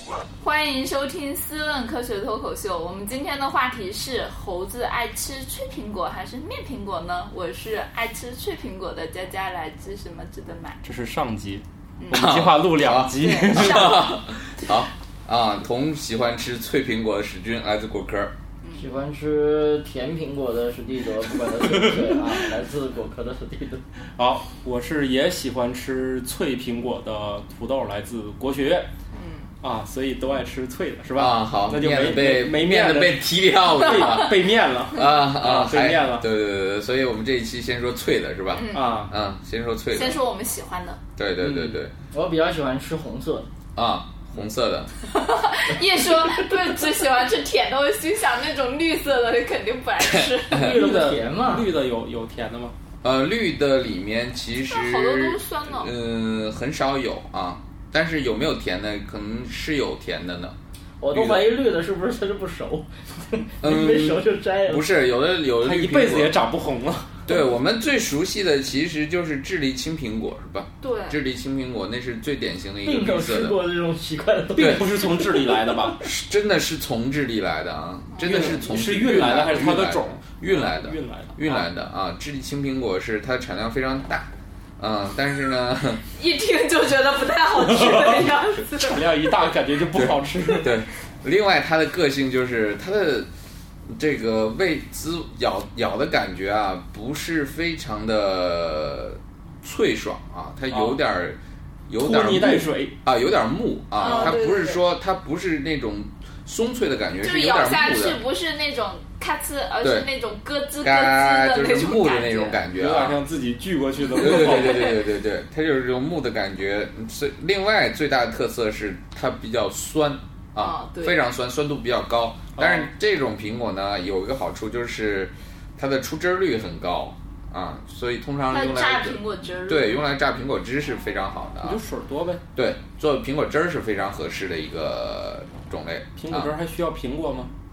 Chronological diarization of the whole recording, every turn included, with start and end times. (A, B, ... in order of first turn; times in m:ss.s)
0:00.4-0:10.8 A
0:10.8-0:14.1 B
0:12.0-0:12.3 A
0:12.1-0:18.3 C
0:13.2-0:14.2 A
0:18.6-0:18.9 A
0:18.8-0:23.8 D
0:24.2-0:28.9 B
0:29.1-0:29.5 A
0:29.6-0:36.3 B
0:31.2-0:34.3 C
0:34.9-0:40.2 C
0:38.5-0:39.0 A
0:38.7-0:39.1 B
0:39.9-0:41.0 A
0:41.2-0:41.9 C
0:41.4-0:41.8 B
0:42.1-0:43.5 D
0:43.7-0:44.9 C
0:45.1-0:50.7 A
0:50.0-0:50.7 C
0:50.5-0:51.7 D
0:50.7-0:52.7 B
0:53.0-1:00.5 C
0:54.7-0:55.9 A
1:01.0-1:04.8 D
1:01.1-1:01.5 C
1:03.6-1:06.4 C
1:05.6-1:07.1 B
1:07.3-1:13.6 C
1:10.8-1:11.2 A
1:12.8-1:15.8 D
1:14.6-1:16.0 B
1:14.6-1:14.8 C
1:16.0-1:26.0 C
1:18.1-1:18.5 A
1:18.2-1:21.6 B
1:26.1-1:29.4 A
1:27.6-1:28.2 B
1:28.7-1:30.7 B
1:29.9-1:33.3 C
1:33.9-1:41.4 C
1:40.7-1:41.0 B
1:41.9-1:48.2 C
1:42.0-1:43.0 B
1:44.0-1:44.8 A
1:47.2-1:52.6 A
1:49.8-1:50.1 C
1:50.8-1:53.2 C
1:52.7-1:55.0 B
1:54.1-2:11.8 C
2:00.6-2:01.2 A
2:02.6-2:02.9 B
2:08.5-2:10.0 A
2:11.6-2:12.4 B
2:12.5-2:16.5 C
2:16.2-2:17.5 B